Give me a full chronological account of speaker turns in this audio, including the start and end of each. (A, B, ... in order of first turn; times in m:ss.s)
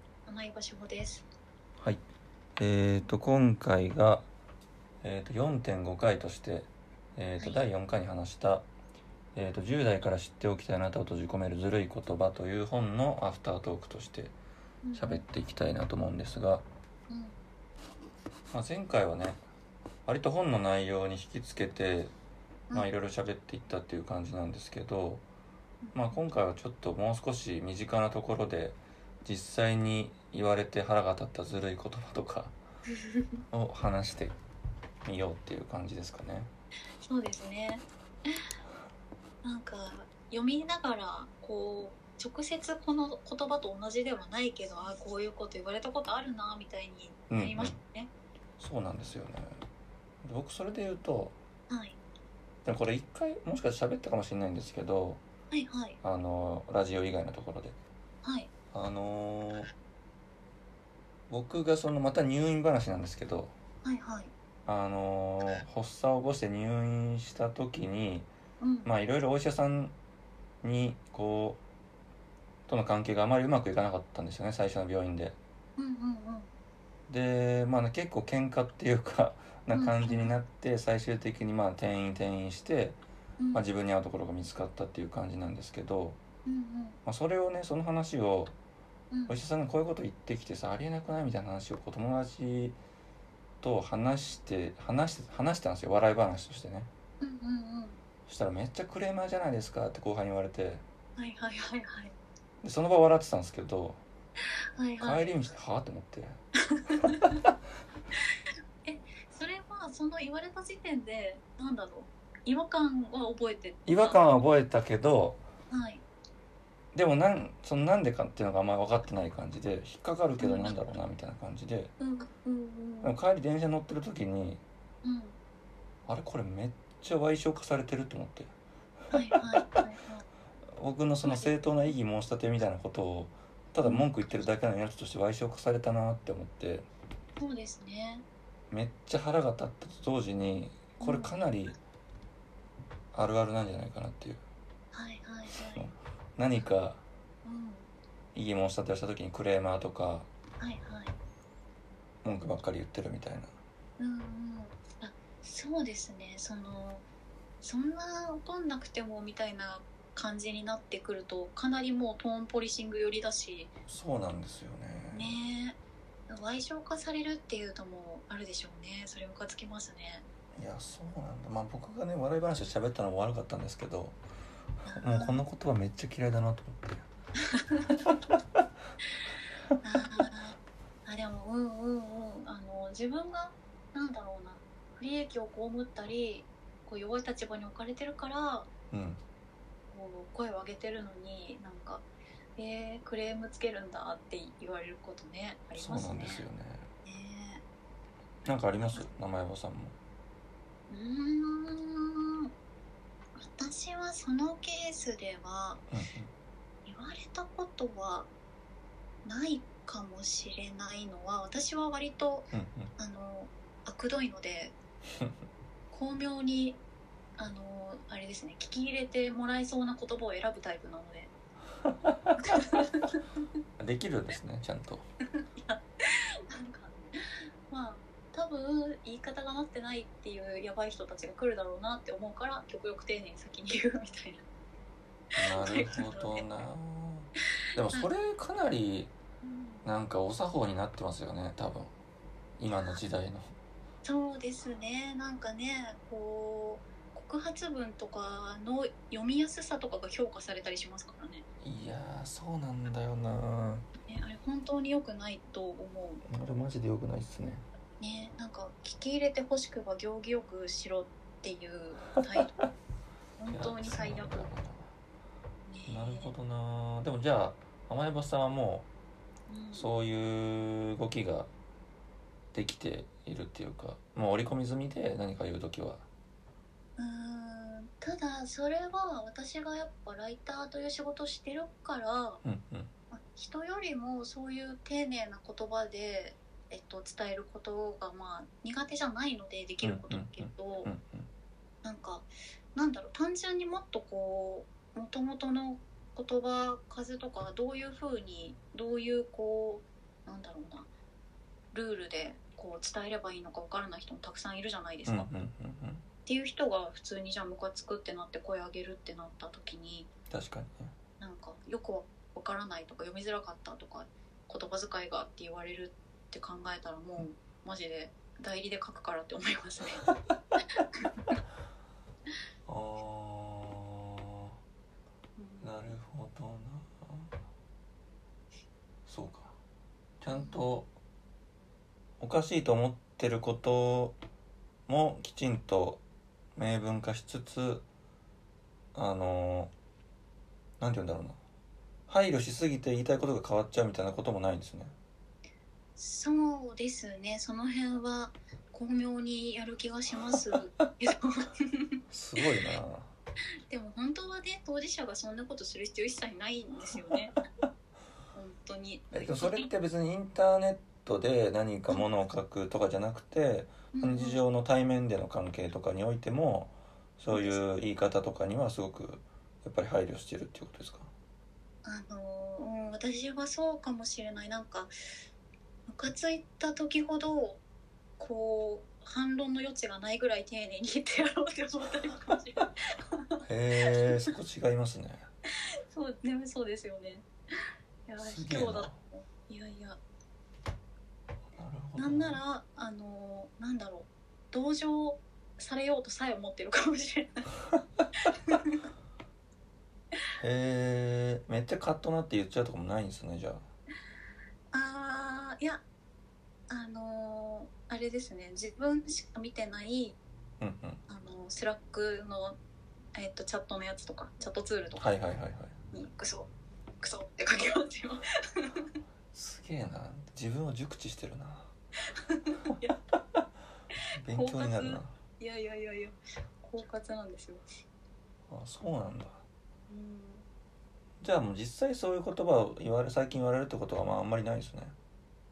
0:00.3-0:01.3 A
0:02.6-0:04.3 B
0:05.0-0:08.7 B
0:09.4-0:14.4 B
0:14.8-0:15.2 A
0:15.0-0:16.6 B
0:17.1-0:17.4 A
0:18.5-0:19.4 B
0:20.1-0:22.1 B
0:22.7-0:25.2 B
0:25.8-0:26.2 A
0:25.9-0:32.6 B
0:33.0-0:33.3 A
0:33.5-0:34.4 B
0:35.0-0:36.5 B
0:37.0-0:38.4 A
0:39.4-0:48.1 A
0:47.3-0:47.8 B
0:48.6-0:49.6 B
0:50.2-0:51.4 B
0:51.7-0:52.0 A
0:52.6-0:55.2 B
0:55.5-0:56.0 A
0:56.0-0:57.8 B
0:58.2-0:58.5 A
0:58.7-0:59.7 B
1:01.3-1:03.5 B
1:03.8-1:04.3 A
1:04.7-1:08.3 B
1:08.6-1:08.9 A
1:08.8-1:10.0 B
1:10.6-1:11.6 B
1:12.7-1:15.4 B
1:15.8-1:16.5 A
1:17.1-1:23.0 B
1:19.7-1:20.4 A
1:23.4-1:23.6 A
1:23.5-1:26.2 B
1:26.4-1:27.0 A
1:27.1-1:28.6 B
1:29.1-1:29.4 A
1:29.3-1:32.8 B
1:33.6-1:36.9 B
1:37.2-1:38.0 A
1:38.3-1:40.8 B
1:41.2-1:42.1 A
1:42.6-1:44.0 B
1:44.8-1:45.3 A
1:45.0-1:46.4 B
1:46.7-1:47.4 A
1:48.8-1:54.5 A
1:53.9-1:55.4 B
1:55.7-1:56.0 A
1:56.9-2:01.9 B
2:00.4-2:00.8 A
2:02.0-2:03.1 A
2:03.0-2:04.6 B
2:05.0-2:05.4 A
2:06.1-2:08.5 B
2:09.1-2:10.2 A
2:10.8-2:16.9 B
2:11.2-2:11.5 A
2:13.8-2:14.1 A
2:17.4-2:18.2 A
2:18.7-2:21.8 B
2:21.0-2:21.3 A
2:23.1-2:24.4 B
2:24.9-2:25.9 A
2:25.7-2:27.0 B
2:27.4-2:27.9 A
2:28.3-2:30.3 B
2:30.6-2:31.2 A
2:32.2-2:33.5 B
2:34.0-2:37.0 A
2:37.6-2:43.7 A
2:43.9-2:45.4 B
2:45.1-2:50.3 A
2:50.6-2:54.2 B
2:54.9-2:55.4 A
2:54.9-2:57.1 B
2:57.5-2:58.0 A
2:59.8-3:08.7 A
3:08.9-3:09.2 B
3:09.9-3:16.4 A
3:15.8-3:16.9 B
3:17.0-3:17.6 A
3:18.4-3:20.0 B
3:20.9-3:22.5 A
3:23.4-3:25.8 A
3:25.9-3:26.3 B
3:26.9-3:28.3 A
3:29.2-3:34.7 A
3:32.5-3:32.9 B
3:35.9-3:36.8 A
3:37.4-3:41.3 A
3:42.0-3:42.6 B
3:42.4-3:43.4 A
3:43.8-3:45.0 B
3:45.4-3:54.4 A
3:55.4-3:59.1 B
3:55.4-3:56.5 A
3:59.4-3:59.9 A
3:59.8-4:01.9 B
4:02.6-4:03.5 B
4:02.7-4:03.0 A
4:04.0-4:11.4 A
4:11.6-4:13.9 B
4:14.0-4:16.2 A
4:16.3-4:17.6 B
4:18.0-4:22.5 A
4:23.4-4:24.5 A
4:23.5-4:24.9 B
4:25.7-4:26.3 A
4:25.9-4:28.9 B
4:29.5-4:29.9 A
4:29.7-4:31.5 B
4:32.5-4:36.1 B
4:37.0-4:42.4 A
4:42.4-4:42.9 B
4:43.1-4:50.9 A
4:49.8-4:51.3 B
4:51.8-5:00.9 A
5:01.7-5:05.3 A
5:05.0-5:06.0 B
5:06.3-5:10.1 A
5:10.3-5:10.9 B
5:11.2-5:20.1 A
5:21.0-5:21.4 A
5:22.7-5:24.1 B
5:25.4-5:25.8 A
5:25.6-5:27.3 B
5:29.1-5:29.6 B
5:30.2-5:30.9 B
5:30.3-5:30.6 A
5:32.2-5:34.2 B
5:34.9-5:36.0 B
5:36.6-5:37.8 B
5:38.9-5:39.7 B
5:40.8-5:41.4 B
5:42.1-5:44.9 B
5:46.0-5:52.0 A
5:52.1-5:53.1 B
5:53.7-5:57.4 A
5:58.3-5:59.7 A
5:59.1-6:11.1 B
6:03.9-6:04.4 A
6:07.3-6:07.6 A
6:11.8-6:14.9 A
6:15.9-6:17.6 A
6:18.2-6:24.2 A
6:23.5-6:25.2 B
6:25.9-6:27.3 A
6:28.1-6:30.0 A
6:28.2-6:29.0 B
6:31.5-6:32.4 B
6:32.0-6:37.5 A
6:38.3-6:38.8 A
6:40.4-6:43.6 B
6:44.7-6:45.8 A
6:46.7-6:50.2 A
6:50.6-6:51.0 B
6:51.1-6:52.6 A
6:53.2-6:55.2 A
6:55.0-6:55.8 B
6:55.9-6:58.9 A
6:59.3-7:01.7 B
7:02.1-7:03.0 A
7:04.2-7:05.1 B
7:04.3-7:07.7 A
7:08.5-7:09.4 B
7:09.9-7:10.5 A
7:11.2-7:15.0 B